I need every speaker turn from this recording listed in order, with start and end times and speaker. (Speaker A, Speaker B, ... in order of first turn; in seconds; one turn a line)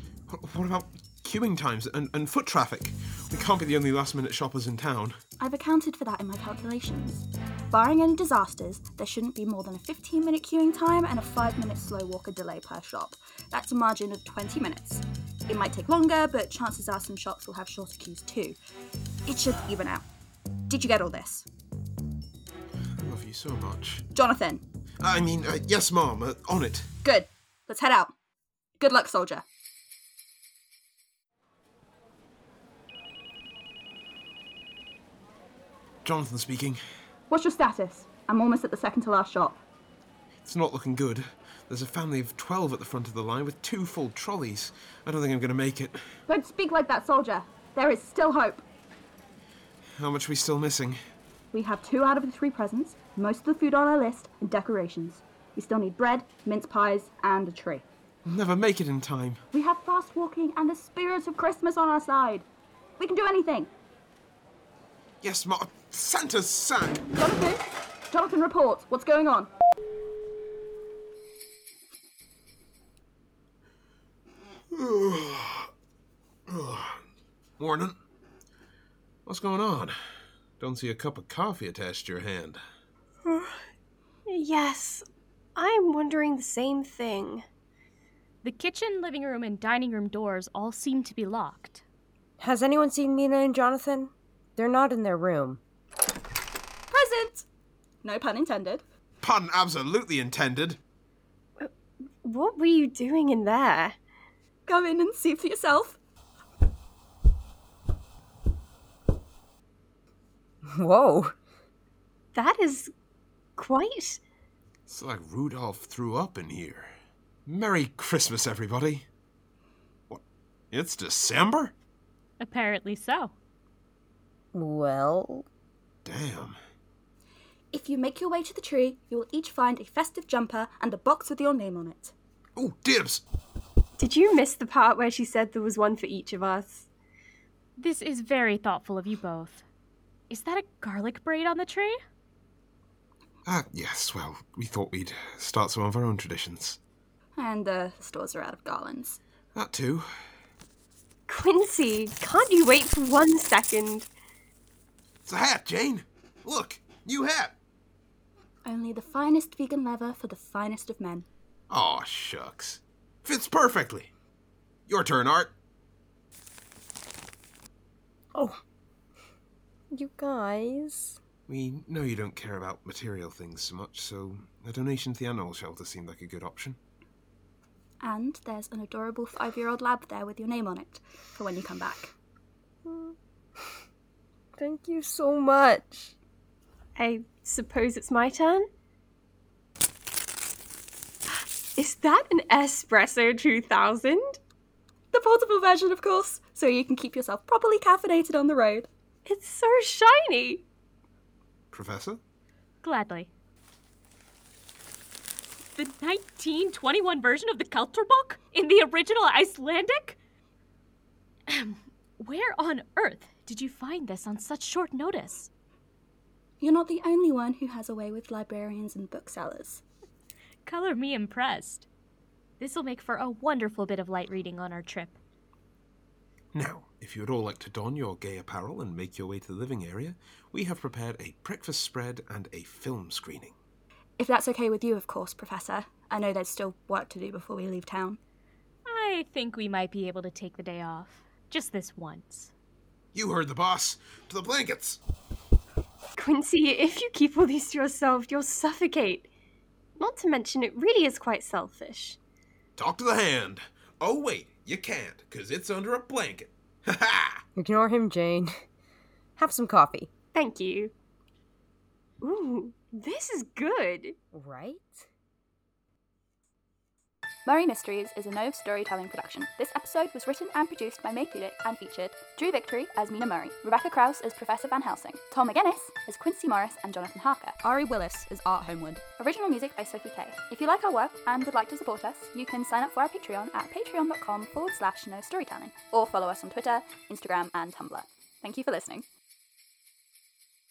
Speaker A: 0.3-5.2
Speaker B: 5.4-18.6
Speaker B: 19.2-20.0
Speaker B: 20.7-21.5
Speaker A: 23.0-24.0
Speaker B: 24.1-24.6
Speaker A: 25.0-26.9
Speaker B: 27.0-28.1
Speaker B: 28.8-29.4
Speaker A: 36.0-36.8
Speaker B: 37.3-39.6
Speaker A: 40.4-46.0
Speaker B: 46.3-48.6
Speaker A: 50.0-51.0
Speaker B: 51.5-57.9
Speaker A: 58.2-59.4
Speaker B: 59.5-62.5
Speaker B: 63.0-63.7
Speaker A: 65.2-67.0
Speaker B: 67.1-69.5
Speaker A: 74.7-75.7
Speaker A: 76.5-77.0
Speaker A: 77.6-77.9
Speaker A: 79.2-79.9
Speaker A: 80.6-82.6
Speaker C: 83.2-83.6
Speaker C: 84.3-85.0
Speaker C: 85.5-87.4
Speaker D: 88.4-91.8
Speaker E: 92.4-95.6
Speaker B: 96.9-97.5
Speaker B: 98.0-98.8
Speaker A: 99.2-100.8
Speaker C: 101.6-104.0
Speaker B: 104.7-106.0
Speaker E: 110.7-111.3
Speaker C: 112.3-112.9
Speaker C: 113.6-114.2
Speaker A: 114.9-116.9
Speaker A: 117.5-119.0
Speaker A: 120.1-121.7
Speaker D: 122.4-123.3
Speaker E: 124.5-125.4
Speaker A: 126.0-126.6
Speaker B: 127.7-132.1
Speaker A: 132.6-133.2
Speaker C: 134.0-136.9
Speaker D: 137.8-139.6
Speaker D: 140.3-142.0
Speaker A: 143.4-146.8
Speaker B: 147.3-149.2
Speaker A: 149.5-150.1
Speaker C: 151.3-154.1
Speaker A: 155.2-157.5
Speaker B: 158.6-161.2
Speaker A: 161.7-164.1
Speaker A: 164.9-165.5
Speaker E: 168.3-168.6
Speaker E: 169.9-171.2
Speaker A: 171.5-176.8
Speaker B: 178.0-182.1
Speaker E: 182.9-183.1
Speaker E: 184.6-186.1
Speaker C: 186.9-188.7
Speaker C: 191.7-194.4
Speaker B: 195.1-198.9
Speaker C: 199.2-200.6
Speaker A: 201.7-202.2
Speaker D: 202.8-203.3
Speaker D: 205.7-210.2
Speaker D: 211.5-215.5
Speaker B: 216.6-219.8
Speaker D: 220.7-221.9
Speaker D: 222.6-225.2
Speaker A: 226.5-233.5
Speaker B: 234.2-238.2
Speaker D: 238.9-242.5
Speaker A: 243.1-245.0
Speaker C: 246.2-249.3
Speaker C: 250.0-252.2
Speaker A: 252.8-257.4
Speaker E: 257.6-258.6
Speaker E: 259.4-260.1
Speaker C: 260.3-260.9
Speaker C: 262.2-264.1
Speaker E: 264.3-265.0
Speaker B: 267.4-289.0